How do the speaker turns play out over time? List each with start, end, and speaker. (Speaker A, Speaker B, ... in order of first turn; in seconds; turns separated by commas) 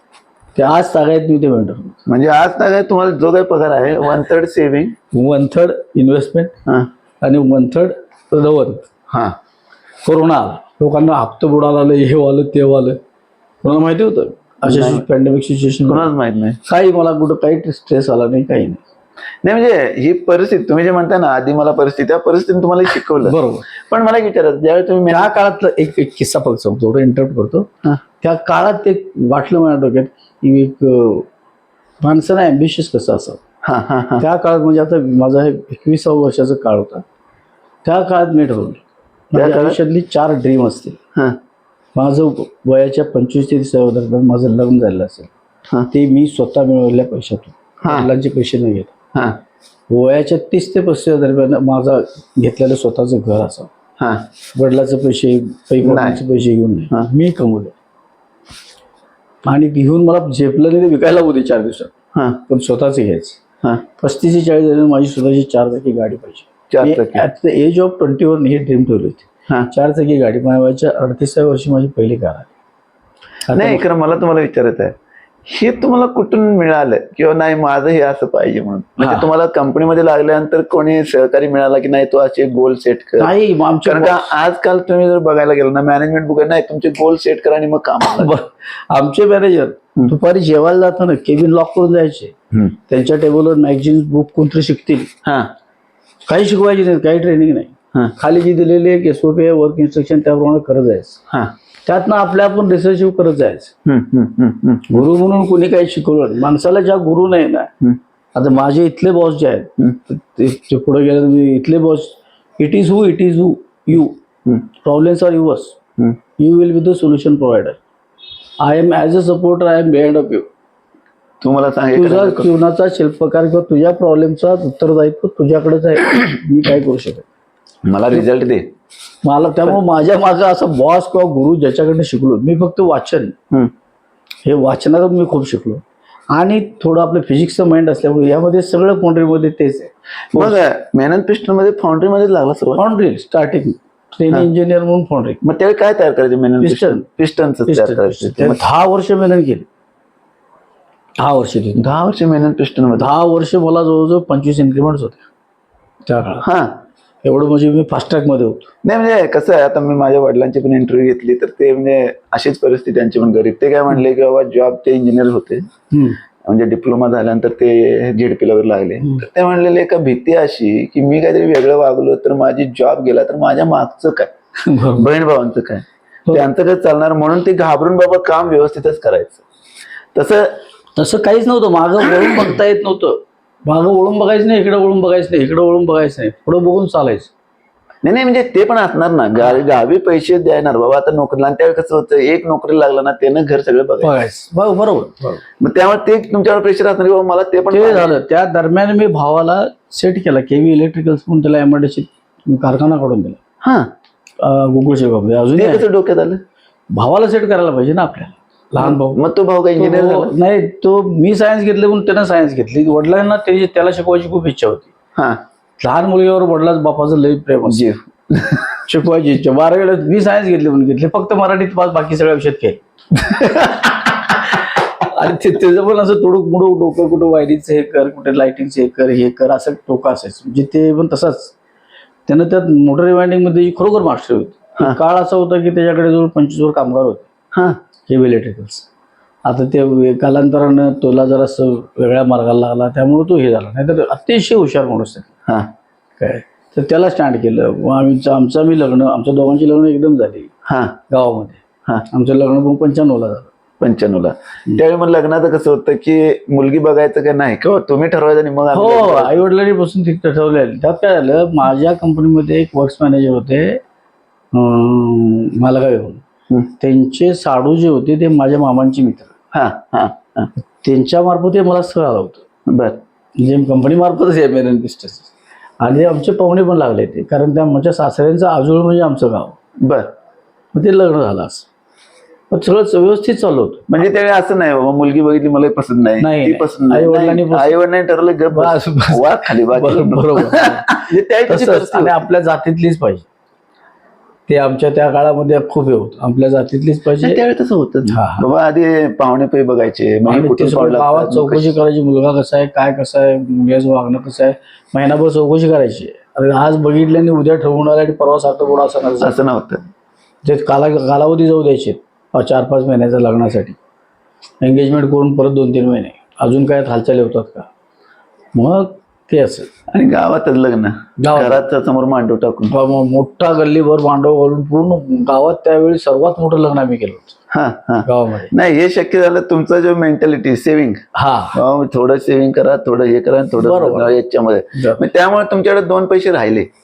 Speaker A: 0.5-2.0, Speaker B: 2.1-4.9, Speaker A: 5.1-6.5, Speaker A: 7.2-8.8, Speaker B: 9.1-9.3, Speaker A: 10.0-13.0, Speaker A: 13.6-16.1, Speaker B: 14.6-15.0, Speaker B: 15.9-16.6, Speaker A: 16.6-18.8, Speaker B: 19.4-25.3, Speaker A: 23.2-23.6, Speaker A: 25.1-27.7, Speaker A: 28.2-31.3, Speaker A: 32.0-33.4, Speaker B: 33.6-34.2, Speaker A: 34.2-37.0, Speaker A: 37.8-41.0, Speaker B: 39.3-39.8, Speaker A: 41.9-45.3, Speaker A: 45.9-48.9, Speaker B: 47.8-48.1, Speaker A: 49.9-53.7, Speaker B: 54.0-54.2, Speaker A: 54.5-57.7, Speaker B: 55.8-56.2, Speaker A: 59.5-61.9, Speaker B: 62.1-62.4, Speaker A: 62.5-63.4, Speaker A: 64.0-72.5, Speaker B: 66.7-67.2, Speaker A: 73.5-73.8, Speaker B: 73.5-88.3, Speaker A: 79.0-79.2, Speaker A: 83.2-84.3, Speaker A: 88.2-92.3, Speaker A: 92.9-95.1, Speaker B: 95.2-95.5, Speaker A: 96.3-101.2, Speaker A: 101.8-103.7, Speaker B: 103.8-105.0, Speaker A: 104.9-107.7, Speaker A: 108.3-114.2, Speaker A: 114.8-115.8, Speaker A: 116.4-117.8, Speaker A: 118.6-120.5, Speaker B: 121.4-122.5, Speaker A: 121.9-127.3, Speaker B: 127.8-128.7, Speaker A: 129.2-133.4, Speaker A: 134.4-140.6, Speaker B: 140.3-142.8, Speaker A: 142.8-145.4, Speaker B: 145.4-148.6, Speaker A: 146.6-147.0, Speaker A: 147.7-149.7, Speaker A: 151.2-151.9, Speaker B: 151.8-153.1, Speaker A: 153.0-155.2, Speaker A: 156.1-156.4, Speaker B: 156.4-156.8, Speaker A: 157.2-158.7, Speaker B: 158.8-165.7, Speaker A: 165.9-166.2, Speaker B: 166.4-174.3, Speaker A: 174.6-175.1, Speaker B: 174.9-179.4, Speaker B: 180.1-180.6, Speaker A: 180.9-187.3, Speaker B: 188.0-194.2, Speaker A: 194.0-195.4, Speaker B: 195.6-198.1, Speaker A: 197.7-203.4, Speaker B: 203.6-203.9, Speaker A: 204.4-205.8, Speaker B: 205.6-206.4, Speaker A: 206.9-209.2, Speaker B: 208.8-210.3, Speaker A: 209.8-214.9, Speaker B: 215.2-215.4, Speaker A: 215.8-217.9, Speaker B: 217.7-218.8, Speaker A: 218.8-222.8, Speaker B: 223.2-223.9, Speaker A: 224.5-231.5, Speaker A: 232.3-237.2, Speaker B: 237.5-237.8, Speaker A: 238.1-238.8, Speaker A: 239.4-245.3, Speaker A: 246.2-250.5, Speaker B: 250.7-251.0, Speaker A: 251.1-253.5, Speaker B: 253.8-259.4, Speaker A: 258.7-263.8, Speaker A: 264.5-266.2, Speaker A: 266.8-269.3, Speaker B: 269.5-270.5, Speaker A: 270.8-272.4, Speaker B: 272.7-273.0, Speaker A: 273.4-279.6, Speaker B: 279.8-280.1, Speaker A: 280.7-281.6, Speaker A: 282.5-283.9, Speaker B: 283.9-292.2, Speaker A: 286.2-287.7, Speaker A: 288.5-290.9, Speaker A: 291.4-293.2, Speaker A: 294.5-297.4, Speaker B: 297.2-301.7, Speaker A: 298.1-298.4, Speaker A: 300.3-309.4, Speaker B: 309.2-309.8, Speaker A: 310.4-313.8, Speaker A: 314.6-317.7, Speaker A: 318.5-319.7, Speaker B: 319.9-322.7, Speaker A: 321.2-321.6, Speaker A: 322.7-327.4, Speaker B: 327.5-336.7, Speaker A: 328.0-328.5, Speaker A: 331.1-331.6, Speaker A: 333.6-334.1, Speaker A: 334.7-335.0